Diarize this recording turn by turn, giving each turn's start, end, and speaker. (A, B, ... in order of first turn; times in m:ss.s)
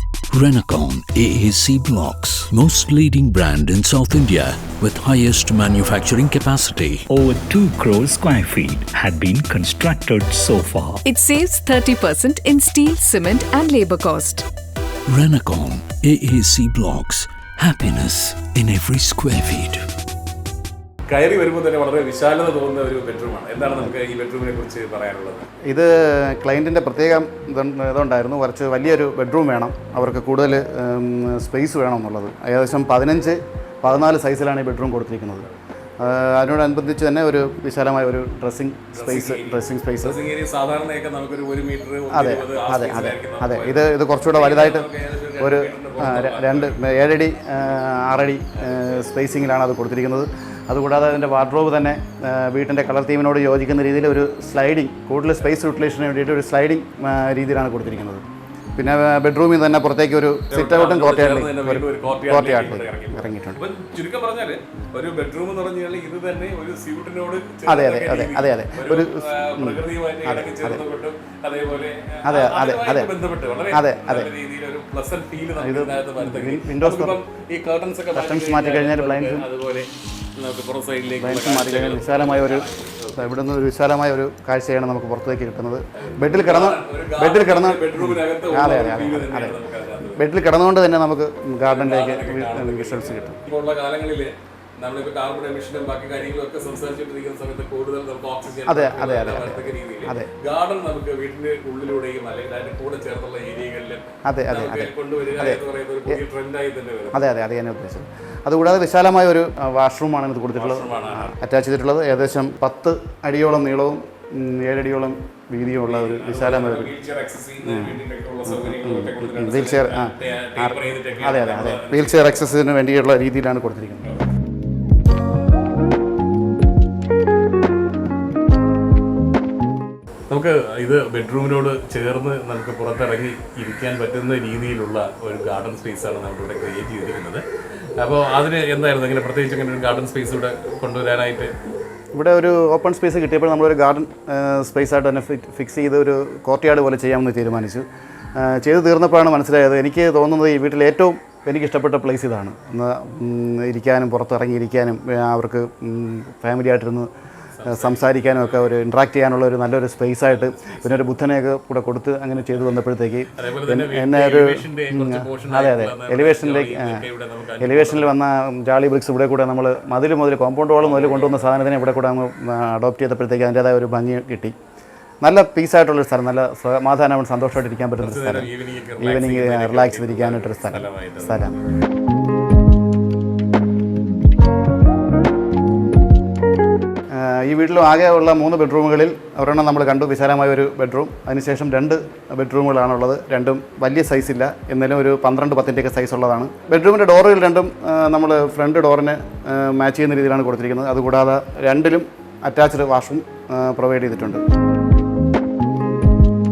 0:00.3-0:07.1 A
0:07.1-0:11.0 B
0:11.0-0:14.4 C
0:15.1-0:19.8 A
0:21.1-0:25.5 D
0:25.6-0:35.4 E
0:36.0-0:40.2 E
0:38.9-0:46.8 D
0:42.1-0:58.2 E
0:48.6-0:48.9 D
0:58.8-1:03.6 E
1:00.5-1:23.3 D
1:07.7-1:10.8 E
1:12.2-1:13.1 E
1:13.7-1:14.3 E
1:15.5-1:17.2 E
1:18.1-1:19.5 E
1:21.2-1:29.6 E
1:26.0-1:30.3 D
1:30.1-1:33.4 E
1:31.6-1:47.2 D
1:38.6-1:40.3 E
1:44.3-1:46.2 E
1:47.1-1:56.9 E
1:50.5-1:51.3 D
1:55.9-2:02.5 D
1:57.6-2:04.1 E
2:10.3-2:17.4 D
2:18.0-2:21.5 D
2:22.1-2:27.8 E
2:28.4-2:37.1 E
2:37.6-2:38.7 D
2:37.6-2:47.0 E
2:40.2-2:41.1 D
2:43.4-2:48.1 D
2:47.6-2:54.5 E
2:50.8-2:51.5 D
2:55.2-3:01.6 E
2:58.0-3:01.6 D
3:07.1-3:24.4 E